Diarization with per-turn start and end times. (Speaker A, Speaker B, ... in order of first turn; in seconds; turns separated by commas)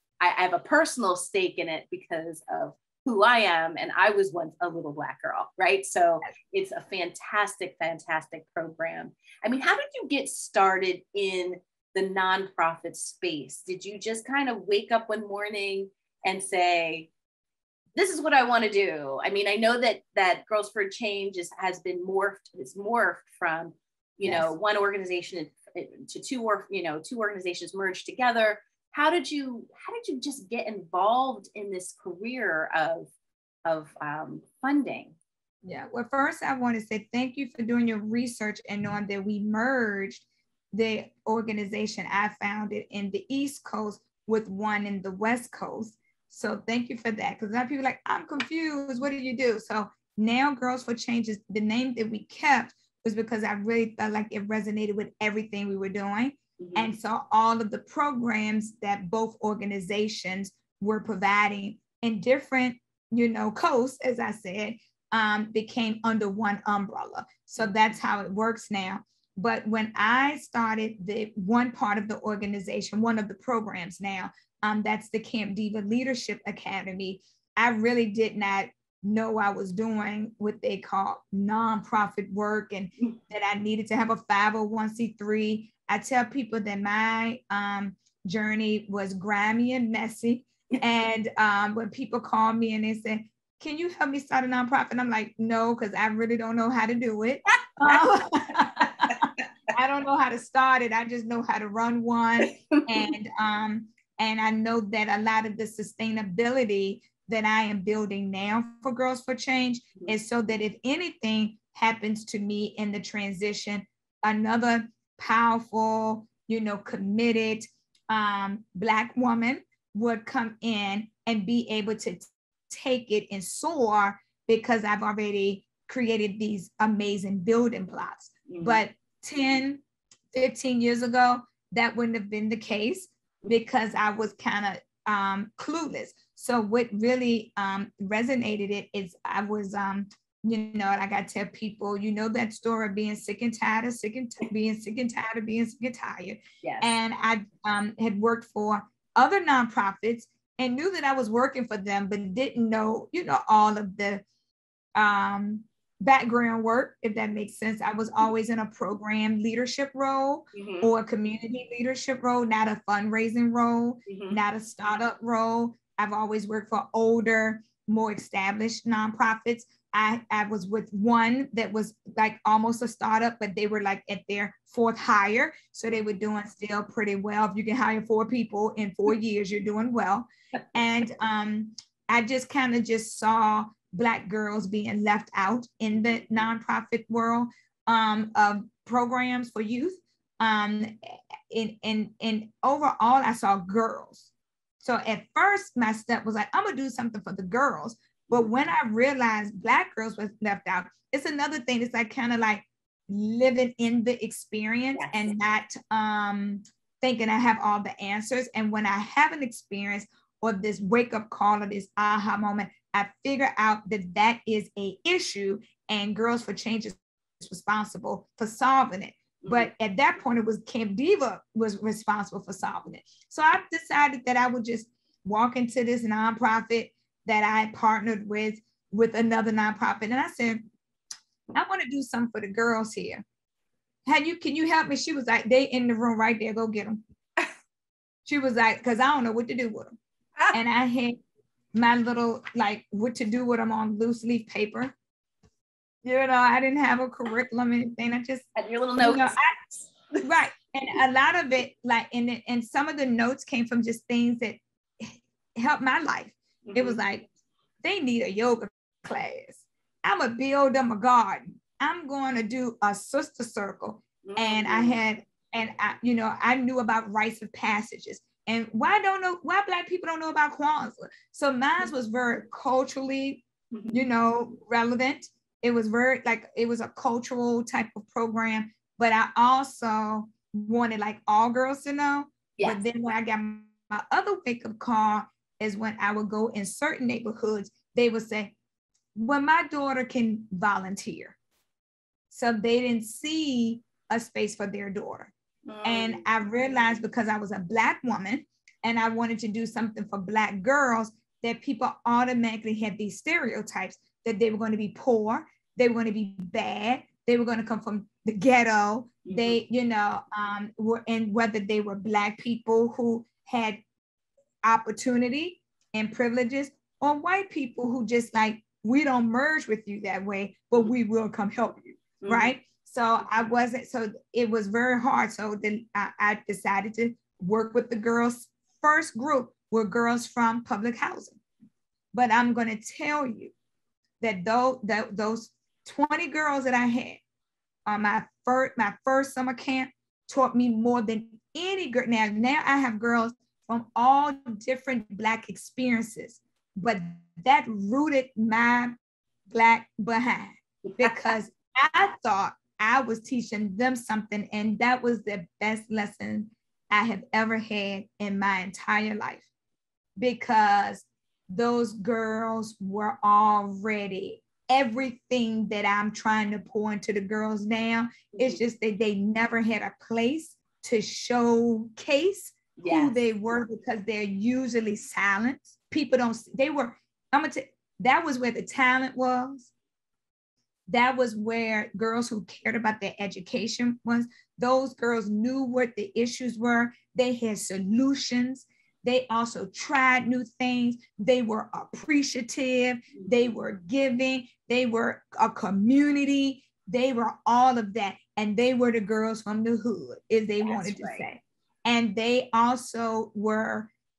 Speaker A: 0.2-17.1, Speaker A: 17.9-33.1, Speaker B: 24.2-24.5, Speaker A: 33.6-35.1, Speaker B: 35.6-129.8, Speaker A: 56.6-56.9, Speaker A: 98.8-99.2, Speaker A: 102.5-103.1, Speaker A: 128.5-128.8, Speaker B: 130.3-154.2, Speaker A: 146.6-146.9, Speaker B: 154.9-194.2, Speaker A: 160.5-160.9, Speaker A: 164.1-164.4, Speaker B: 194.8-230.7, Speaker A: 204.9-205.3, Speaker A: 219.4-219.7, Speaker B: 231.5-233.2, Speaker B: 234.1-237.0, Speaker B: 238.2-239.9, Speaker B: 240.5-241.2, Speaker B: 241.7-244.9, Speaker B: 246.0-248.4, Speaker A: 248.5-250.2, Speaker B: 249.0-249.5, Speaker B: 250.2-257.3, Speaker A: 256.6-257.0, Speaker B: 257.8-288.5, Speaker A: 264.2-265.0, Speaker A: 273.7-274.1, Speaker A: 282.6-282.8, Speaker B: 289.1-291.4, Speaker B: 292.3-295.3, Speaker A: 295.6-296.2, Speaker B: 295.8-313.8, Speaker A: 309.2-309.6, Speaker B: 314.6-331.4, Speaker A: 322.2-322.5, Speaker B: 332.1-333.5, Speaker B: 334.2-337.2, Speaker B: 337.9-349.0, Speaker B: 349.5-359.4, Speaker A: 350.9-351.2, Speaker B: 360.2-379.7, Speaker A: 368.3-368.6, Speaker A: 372.8-373.1, Speaker B: 380.9-403.9, Speaker A: 393.1-393.5, Speaker A: 400.6-401.2